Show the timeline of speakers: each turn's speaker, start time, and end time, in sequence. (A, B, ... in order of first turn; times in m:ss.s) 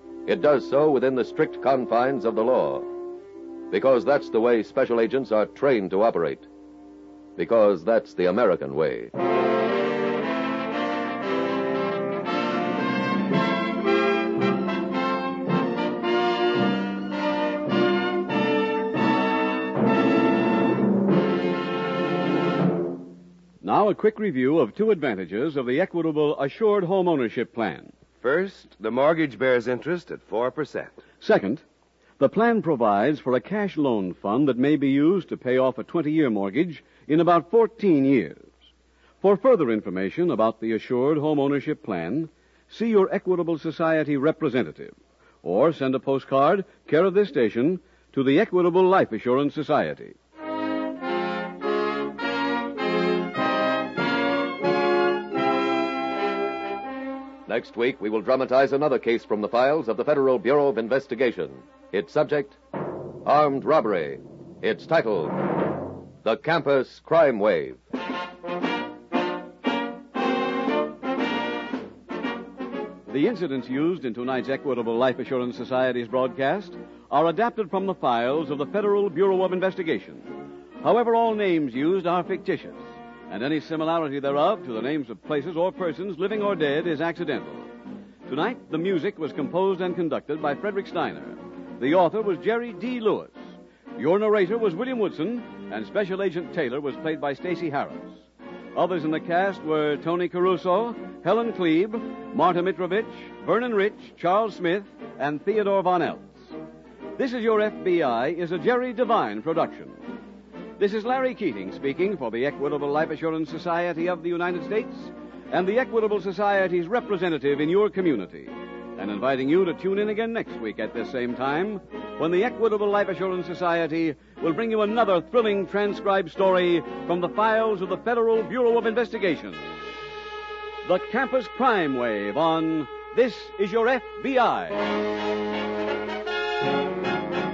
0:00.2-0:02.9 A
0:03.7-0:06.5 A
0:07.4-0:09.1 A
0:23.6-0:27.9 B
0:28.2-0:31.0 C
0:31.2-0:31.6 B
0:32.2-0:38.5 B
0:39.2-0:50.2 B
0:57.5-1:02.6 A
1:03.2-1:05.4 A
1:06.2-1:07.8 A
1:13.1-1:20.3 B
1:20.8-1:27.7 B
1:28.2-1:33.4 B
1:34.0-1:38.2 B
1:38.7-1:46.5 B
1:47.2-1:50.0 B
1:50.8-2:09.7 B
2:10.8-2:14.8 B